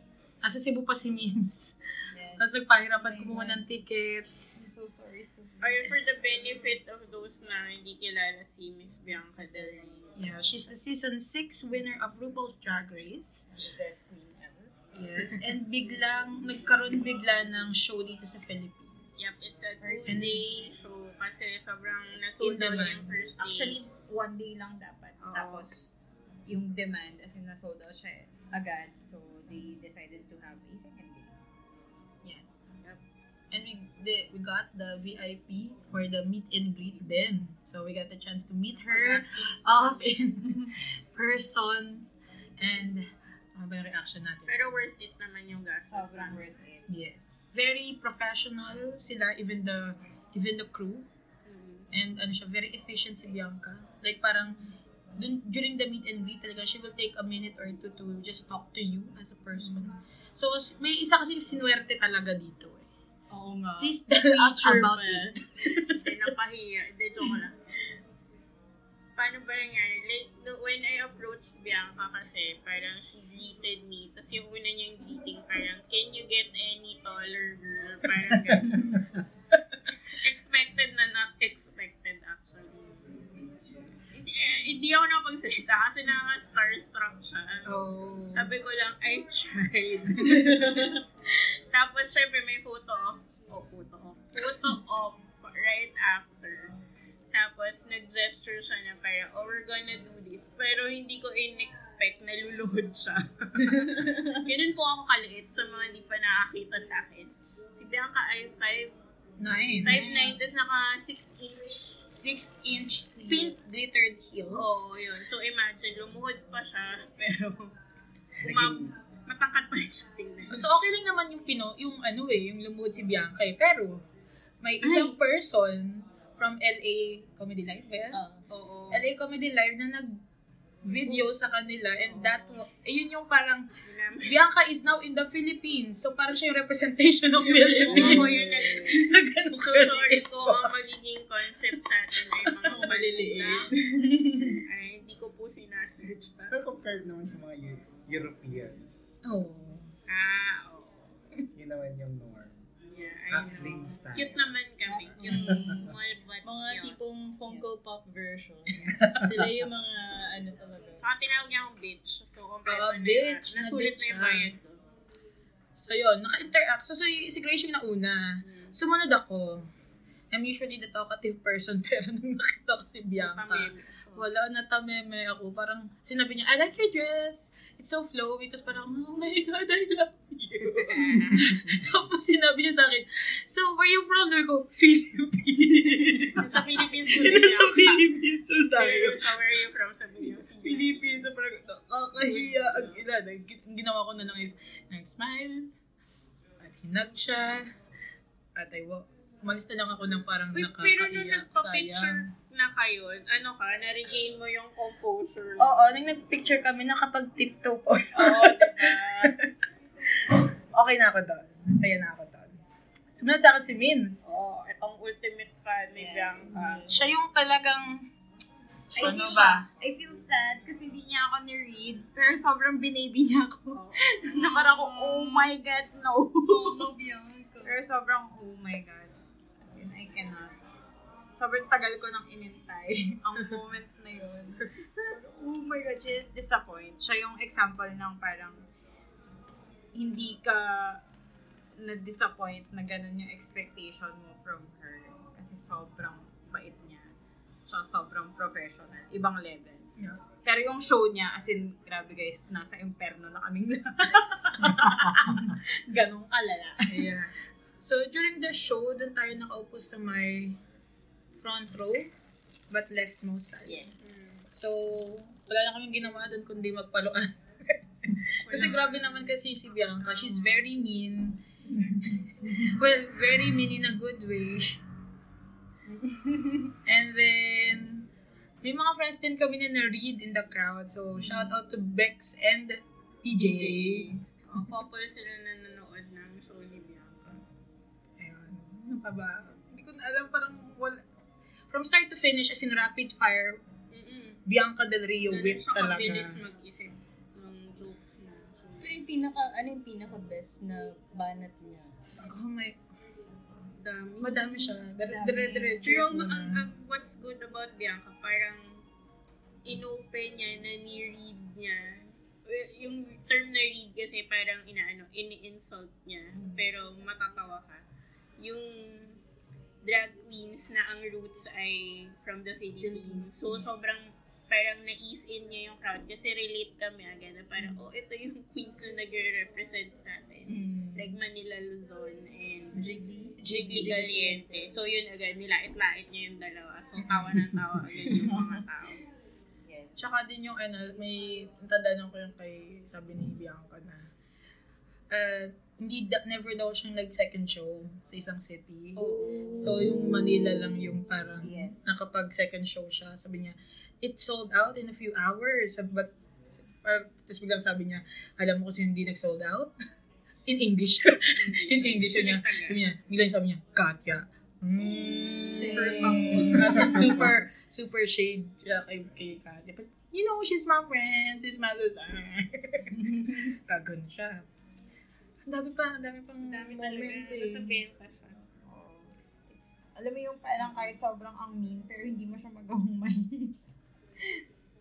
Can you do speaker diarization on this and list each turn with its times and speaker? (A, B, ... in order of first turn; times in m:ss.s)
0:00.4-0:01.8 A
0:02.1-0:03.6 B
0:02.4-0:04.7 A
0:04.6-0:05.9 B
0:05.6-0:10.1 C
0:09.5-0:09.9 B
0:10.2-0:13.5 A
0:13.6-0:14.7 B
0:14.9-0:19.5 A
0:19.2-0:23.8 C
0:19.8-0:20.3 B
0:20.1-0:20.4 A
0:22.4-0:23.2 A
0:23.3-0:25.9 B
0:25.2-0:25.9 C
0:26.5-0:31.3 B
0:33.5-0:42.1 A
0:38.9-0:40.2 C
0:42.6-0:44.8 A
0:44.5-0:46.4 C
0:45.9-0:46.9 B
0:46.9-0:51.1 A
0:51.5-0:51.9 C
0:51.9-0:54.6 A
0:55.2-1:02.9 A
1:03.3-1:05.4 D
1:03.8-1:06.2 A
1:05.9-1:07.6 C
1:09.2-1:19.0 C
1:19.5-1:19.8 A
1:20.2-1:23.1 C
1:24.1-1:27.7 C
1:27.6-1:28.5 A
1:28.3-1:36.7 C
1:30.1-1:30.7 A
1:37.3-1:48.9 C
1:49.4-1:50.1 A
1:49.8-1:52.1 C
1:49.9-1:50.4 B
1:52.1-1:54.9 A
1:54.5-1:57.7 C
1:58.4-2:00.7 C
1:58.4-1:58.9 E
2:00.5-2:04.0 A
2:04.6-2:08.2 A
2:04.8-2:05.2 D
2:08.1-2:08.4 D
2:08.5-2:09.0 C
2:08.9-2:10.1 A
2:10.8-2:13.7 A
2:12.1-2:12.4 D
2:13.8-2:14.5 C
2:14.2-2:20.7 A
2:17.3-2:23.8 C
2:17.8-2:18.7 D
2:17.9-2:19.0 B
2:22.2-2:22.8 A
2:22.6-2:24.4 D
2:24.0-2:24.6 A
2:24.5-2:26.6 C
2:26.5-2:29.2 E
2:29.2-2:29.9 A
2:30.1-2:31.1 C
2:31.6-2:32.5 E
2:32.9-2:37.0 C
2:33.3-2:34.4 E
2:34.8-2:35.6 B
2:35.2-2:35.9 D
2:35.3-2:35.9 E
2:36.4-2:41.0 D
2:38.8-2:39.3 E
2:41.0-2:44.8 C
2:42.6-2:44.5 A
2:45.8-2:49.7 A
2:48.4-2:48.8 C
2:50.3-3:09.4 A
2:53.2-2:54.3 C
3:00.8-3:01.5 C
3:06.4-3:08.0 C
3:08.8-3:11.1 C
3:10.2-3:15.7 A
3:12.2-3:13.0 C
3:16.6-3:17.6 A
3:18.6-3:22.3 A
3:20.5-3:25.9 C
3:25.6-3:29.5 A
3:28.1-3:29.3 C
3:30.7-3:32.6 A
3:33.1-3:34.4 A
3:34.2-3:36.9 C
3:36.0-3:37.0 B
3:36.9-3:38.1 A
3:38.9-3:39.7 A
3:38.9-3:46.9 B
3:43.7-3:44.6 C
3:44.4-3:45.5 D
3:46.5-3:47.8 D
3:47.6-3:50.6 B
3:51.3-3:58.6 B
3:59.9-4:01.0 B
4:01.8-4:07.1 B
4:07.7-4:09.9 B
4:10.4-4:17.1 B
4:16.8-4:20.6 A
4:21.4-4:22.1 A
4:22.7-4:24.0 A
4:23.7-4:24.0 B
4:24.0-4:24.4 C
4:24.5-4:31.4 A
4:28.4-4:30.5 C
4:31.7-4:32.8 B
4:32.1-4:34.8 A
4:36.8-4:38.1 A
4:38.6-4:44.7 A
4:43.4-4:47.4 C
4:48.2-4:51.0 A
4:51.7-4:53.6 A
4:53.9-4:54.4 C
4:54.5-4:56.4 A
4:55.3-4:58.9 C
4:58.8-5:02.3 D
5:02.2-5:02.8 A
5:03.8-5:04.8 C
5:04.2-5:06.6 A
5:05.1-5:05.9 B
5:05.8-5:08.8 C
5:09.6-5:17.8 C
5:16.3-5:16.7 D
5:18.4-5:19.2 C
5:19.8-5:39.0 C
5:22.8-5:23.6 D
5:30.5-5:31.2 A
5:32.7-5:34.6 D
5:33.4-5:34.2 A
5:37.0-5:37.4 A
5:38.1-5:38.6 B
5:39.6-5:40.0 B
5:40.0-5:44.0 A
5:45.1-5:59.7 A
5:49.2-5:49.6 D
5:49.2-5:49.6 B
5:51.4-5:52.0 B
6:00.4-6:14.5 A
6:01.3-6:02.8 C
6:05.4-6:07.1 C
6:05.6-6:07.3 B
6:15.4-6:17.8 A
6:16.4-6:18.4 C
6:18.6-6:23.6 B